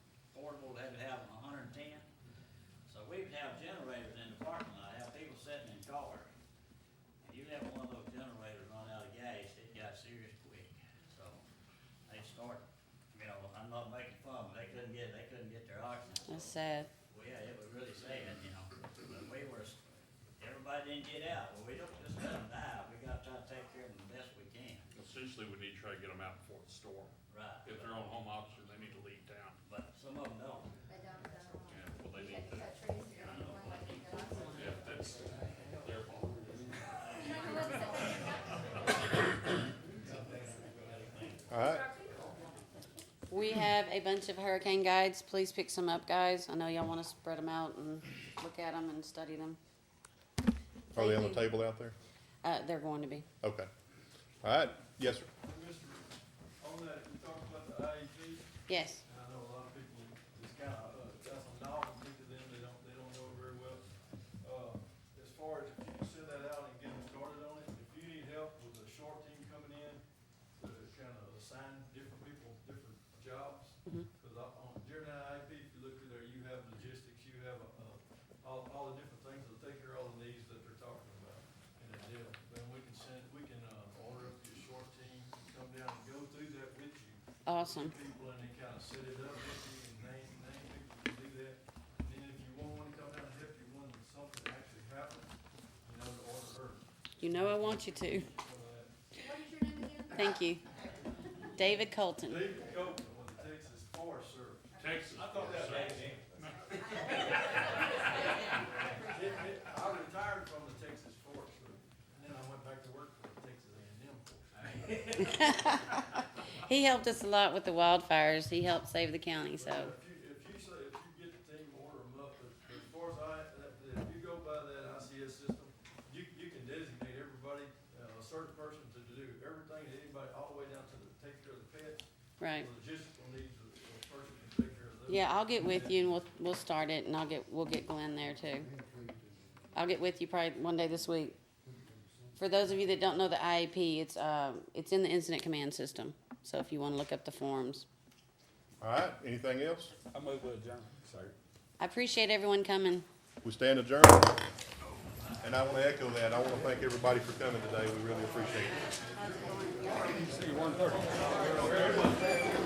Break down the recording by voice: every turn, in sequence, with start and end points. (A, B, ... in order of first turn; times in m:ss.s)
0:00.3-0:02.1 A
0:02.9-0:06.3 A
0:07.2-0:11.4 A
0:12.1-0:16.5 A
0:16.3-0:16.9 B
0:17.1-0:24.9 A
0:24.9-0:29.6 C
0:27.3-0:28.0 A
0:29.6-0:30.7 A
0:30.8-0:34.8 D
0:31.6-0:32.7 C
0:33.2-0:33.9 A
0:34.5-0:36.7 C
0:37.1-0:39.3 D
0:40.0-0:41.6 A
0:41.5-0:41.9 E
0:41.6-0:42.3 D
0:43.3-0:49.6 B
0:50.9-0:51.5 B
0:50.9-0:51.9 E
0:52.4-0:53.2 B
0:53.4-0:53.7 E
0:54.4-0:55.2 E
0:55.4-1:03.9 F
0:58.7-0:59.0 B
1:04.4-1:10.0 F
1:10.6-1:39.0 F
1:27.4-1:27.9 B
1:37.2-1:38.3 B
1:39.1-1:40.6 D
1:40.1-1:40.6 B
1:41.6-1:42.5 B
1:42.2-1:44.7 F
1:44.8-1:47.7 C
1:45.2-1:46.2 A
1:45.5-1:46.2 F
1:46.8-1:49.6 D
1:47.8-1:48.7 A
1:48.4-1:54.7 F
1:54.6-1:55.6 A
1:55.2-1:56.0 B
1:56.5-1:59.9 B
1:59.6-2:16.2 F
2:12.4-2:12.7 B
2:15.1-2:18.7 B
2:18.7-2:19.6 G
2:19.7-2:21.4 B
2:21.8-2:22.3 G
2:22.4-2:27.8 B
2:28.8-2:29.9 E
2:30.1-2:31.3 G
2:31.8-2:33.0 B
2:33.4-2:34.4 E
2:35.4-2:38.8 E
2:39.3-2:40.0 B
2:40.3-2:42.3 C
2:41.8-2:42.1 F